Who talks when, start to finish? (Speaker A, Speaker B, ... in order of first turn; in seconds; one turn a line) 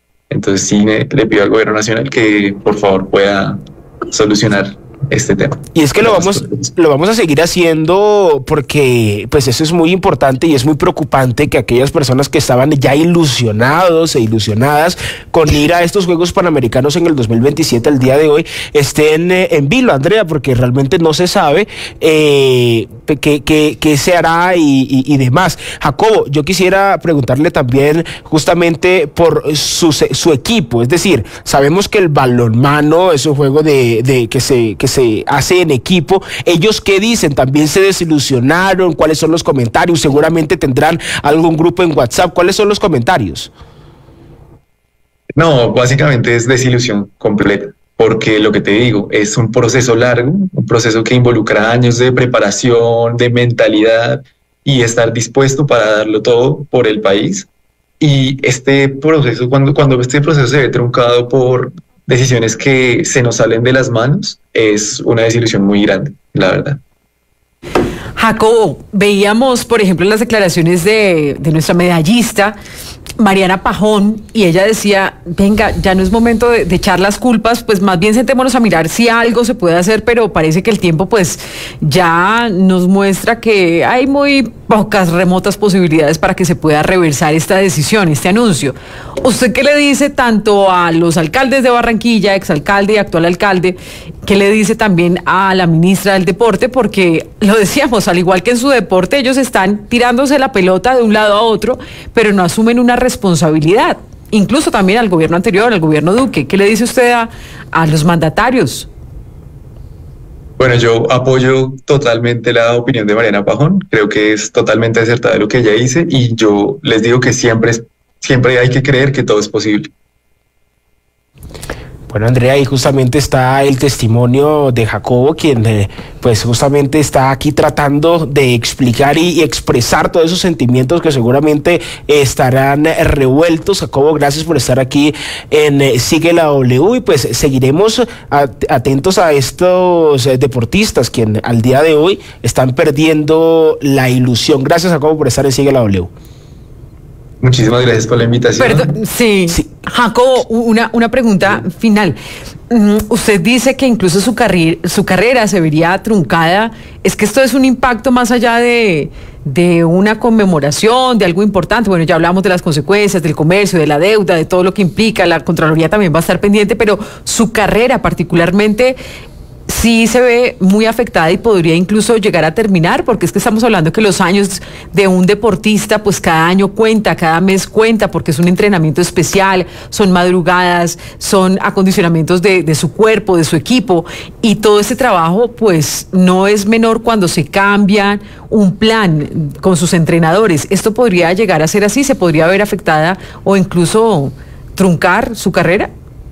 Speaker A: 0.3-6.7
Speaker B: 5.7-43.5
Speaker A: 45.4-57.5
Speaker A: 58.0-66.8
Speaker C: 68.2-72.5
Speaker C: 73.2-108.9
Speaker A: 110.6-119.9
Speaker B: 122.1-146.1
Speaker A: 147.4-148.9
Speaker C: 148.6-152.2
Speaker C: 152.7-169.0
Speaker C: 169.7-195.9